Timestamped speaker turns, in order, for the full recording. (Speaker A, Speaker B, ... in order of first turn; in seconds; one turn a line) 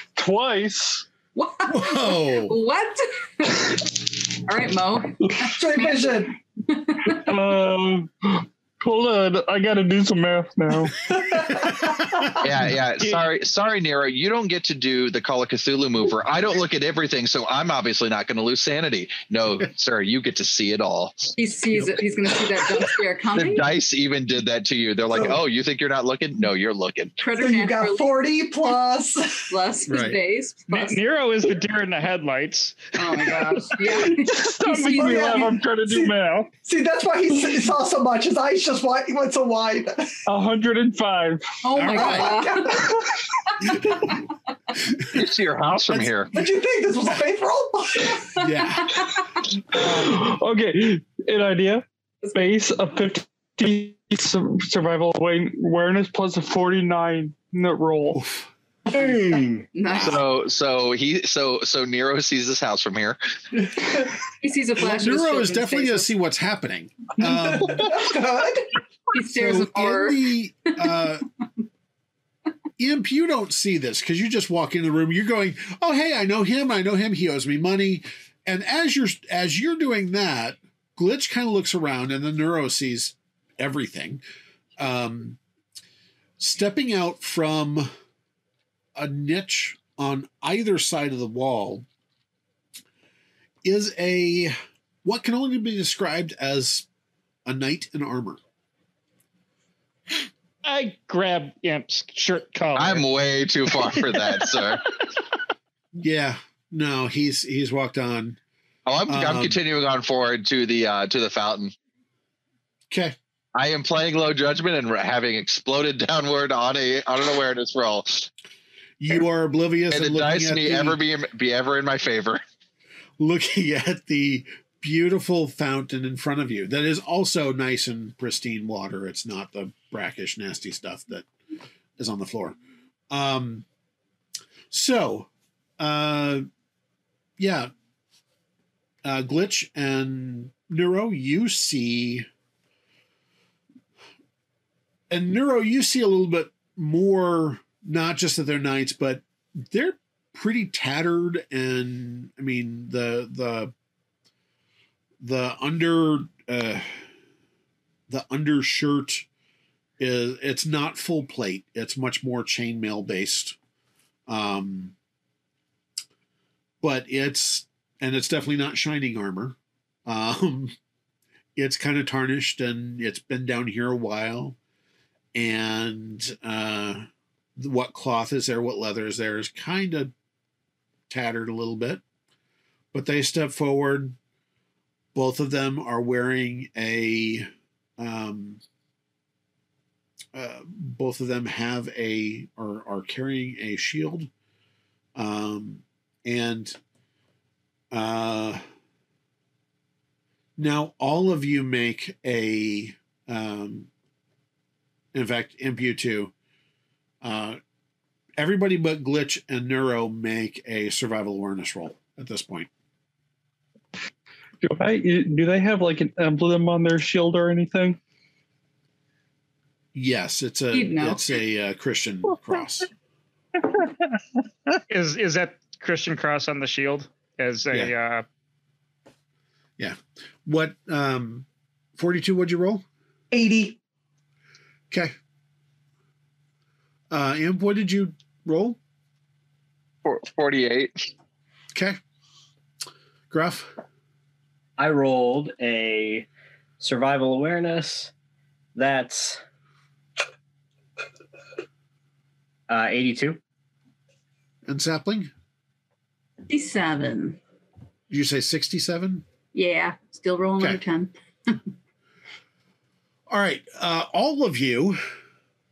Speaker A: 0.1-1.0
Speaker B: 1.4-7.3
Speaker C: 1.7-2.5
Speaker D: 5.5-6.3
Speaker A: 7.1-11.0
Speaker D: 11.1-12.3
Speaker E: 12.4-21.3
Speaker F: 13.0-13.2
Speaker B: 21.4-23.7
Speaker E: 23.3-27.1
Speaker D: 25.1-25.4
Speaker B: 27.2-28.7
Speaker D: 27.4-29.5
Speaker B: 29.5-31.0
Speaker C: 29.9-30.2
Speaker F: 30.7-33.0
Speaker B: 32.9-35.5
Speaker A: 33.8-36.5
Speaker D: 34.8-36.1
Speaker D: 36.6-40.2
Speaker A: 40.3-41.4
Speaker B: 41.6-42.9
Speaker C: 41.7-42.5
Speaker D: 42.1-43.0
Speaker E: 45.0-46.3
Speaker C: 45.9-46.1
Speaker D: 46.3-48.5
Speaker C: 48.4-49.0
Speaker A: 49.7-58.2
Speaker C: 58.1-58.5
Speaker G: 59.0-59.6
Speaker B: 59.7-60.2
Speaker E: 59.9-63.2
Speaker B: 64.4-66.1
Speaker C: 64.8-67.9
Speaker D: 67.2-68.7
Speaker B: 69.1-70.2
Speaker C: 69.2-71.2
Speaker C: 72.8-84.2
Speaker C: 84.8-85.4
Speaker C: 86.4-87.9
Speaker C: 89.0-91.8
Speaker C: 93.6-96.9
Speaker C: 97.4-98.4
Speaker F: 100.6-103.0
Speaker E: 102.7-104.8
Speaker F: 103.9-104.6
Speaker C: 106.0-108.4
Speaker E: 108.8-111.7
Speaker C: 109.1-109.6
Speaker C: 112.9-113.2
Speaker E: 113.5-118.3
Speaker C: 119.0-121.0
Speaker E: 119.9-122.4
Speaker C: 123.2-131.3
Speaker C: 132.0-132.6
Speaker C: 133.1-133.6
Speaker C: 134.7-136.4
Speaker C: 137.4-137.7
Speaker C: 139.0-142.3
Speaker C: 145.1-153.7
Speaker C: 155.2-157.1
Speaker C: 158.1-159.2
Speaker C: 160.0-163.6
Speaker C: 164.3-164.9
Speaker C: 166.8-170.7
Speaker C: 171.6-174.6
Speaker C: 175.3-180.1
Speaker C: 181.1-182.0
Speaker C: 182.9-184.2
Speaker C: 185.1-188.6
Speaker C: 190.3-194.3
Speaker C: 195.2-196.8
Speaker C: 197.9-198.6
Speaker C: 200.6-203.9
Speaker C: 205.1-206.3
Speaker C: 207.2-207.6
Speaker C: 208.4-212.7
Speaker A: 214.6-218.0
Speaker C: 219.9-222.9
Speaker B: 220.7-221.2
Speaker F: 224.9-228.2
Speaker C: 229.8-232.8
Speaker D: 233.3-233.8
Speaker C: 237.1-238.8
Speaker E: 240.0-240.9
Speaker C: 241.7-242.0
Speaker C: 243.3-243.7
Speaker G: 244.8-246.3
Speaker G: 246.8-248.1
Speaker G: 248.7-249.4
Speaker G: 252.7-253.4
Speaker C: 254.6-255.3
Speaker B: 256.5-257.4
Speaker C: 258.1-259.2
Speaker B: 259.5-261.6
Speaker C: 263.3-265.0